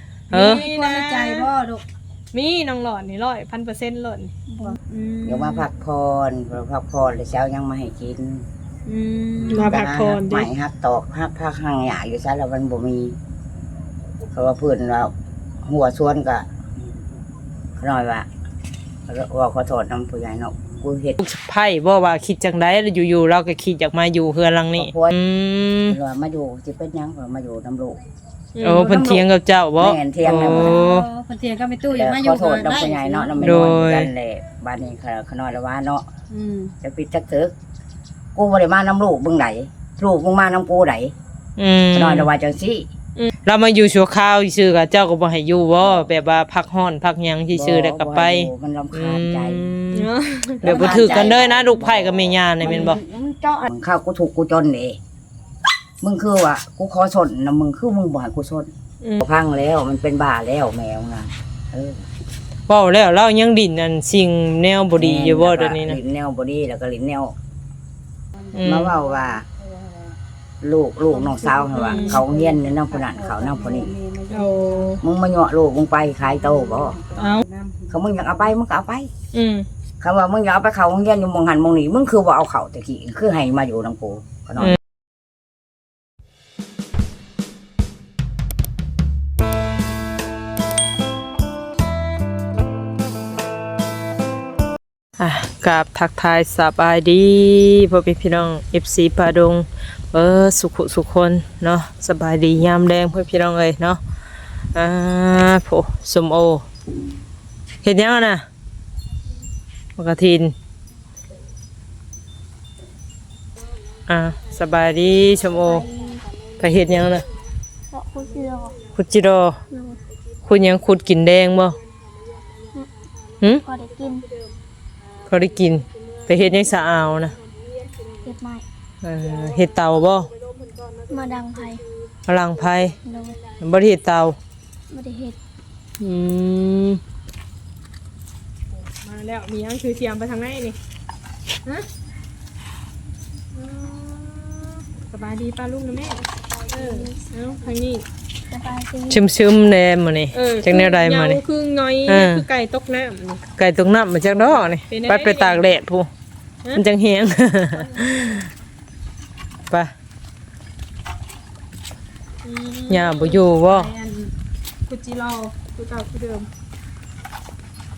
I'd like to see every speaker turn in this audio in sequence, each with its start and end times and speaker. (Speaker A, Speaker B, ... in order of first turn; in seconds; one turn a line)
Speaker A: 0.3-0.7
Speaker B: 0.3-1.5
Speaker C: 0.3-1.8
Speaker B: 2.3-4.3
Speaker D: 4.5-4.8
Speaker C: 4.6-5.7
Speaker E: 5.2-8.4
Speaker C: 8.8-9.7
Speaker E: 9.4-13.2
Speaker B: 9.5-10.5
Speaker E: 14.3-15.1
Speaker E: 15.6-16.5
Speaker E: 17.8-18.3
Speaker E: 19.1-21.2
Speaker A: 21.2-26.0
Speaker E: 24.7-25.1
Speaker E: 25.9-28.0
Speaker B: 28.6-28.9
Speaker A: 28.6-31.1
Speaker E: 28.7-29.2
Speaker E: 29.8-30.8
Speaker C: 30.4-33.6
Speaker E: 31.9-36.0
Speaker A: 33.4-34.1
Speaker C: 36.3-36.7
Speaker E: 36.8-37.5
Speaker E: 38.3-41.1
Speaker A: 41.6-42.3
Speaker E: 41.9-42.9
Speaker A: 43.5-50.1
Speaker E: 47.5-49.7
Speaker B: 49.9-50.9
Speaker A: 50.6-53.0
Speaker E: 50.6-55.0
Speaker C: 52.6-53.6
Speaker E: 56.0-62.0
Speaker A: 62.7-66.0
Speaker E: 64.9-67.3
Speaker C: 68.3-70.2
Speaker A: 68.5-68.9
Speaker E: 68.6-69.4
Speaker E: 70.6-73.9
Speaker C: 71.1-75.0
Speaker B: 71.7-72.2
Speaker B: 74.3-75.0
Speaker E: 75.0-77.0
Speaker C: 76.2-78.5
Speaker B: 77.2-77.4
Speaker E: 77.9-79.1
Speaker B: 79.3-79.7
Speaker E: 80.0-84.8
Speaker A: 95.2-104.0
Speaker A: 104.7-106.6
Speaker A: 107.8-108.4
Speaker A: 110.0-110.5
Speaker A: 114.1-115.8
Speaker B: 114.8-117.2
Speaker D: 115.5-116.2
Speaker A: 116.6-117.2
Speaker D: 117.9-118.8
Speaker B: 118.2-118.9
Speaker A: 118.9-119.6
Speaker D: 119.7-120.0
Speaker A: 120.5-121.8
Speaker B: 121.8-128.3
Speaker D: 123.5-124.2
Speaker A: 125.3-127.3
Speaker D: 128.2-128.6
Speaker A: 129.0-130.3
Speaker B: 129.2-132.1
Speaker D: 131.1-131.8
Speaker A: 132.3-132.9
Speaker D: 133.0-133.4
Speaker B: 133.1-133.6
Speaker A: 133.6-134.4
Speaker D: 134.9-135.4
Speaker A: 136.0-137.0
Speaker B: 139.0-140.8
Speaker B: 143.5-148.0
Speaker D: 146.7-147.2
Speaker D: 148.5-149.2
Speaker A: 149.1-151.4
Speaker B: 150.3-153.4
Speaker A: 152.1-152.4
Speaker A: 153.6-156.1
Speaker B: 154.2-155.7
Speaker A: 156.7-158.5
Speaker B: 162.4-164.3
Speaker A: 162.9-163.9
Speaker B: 164.9-166.5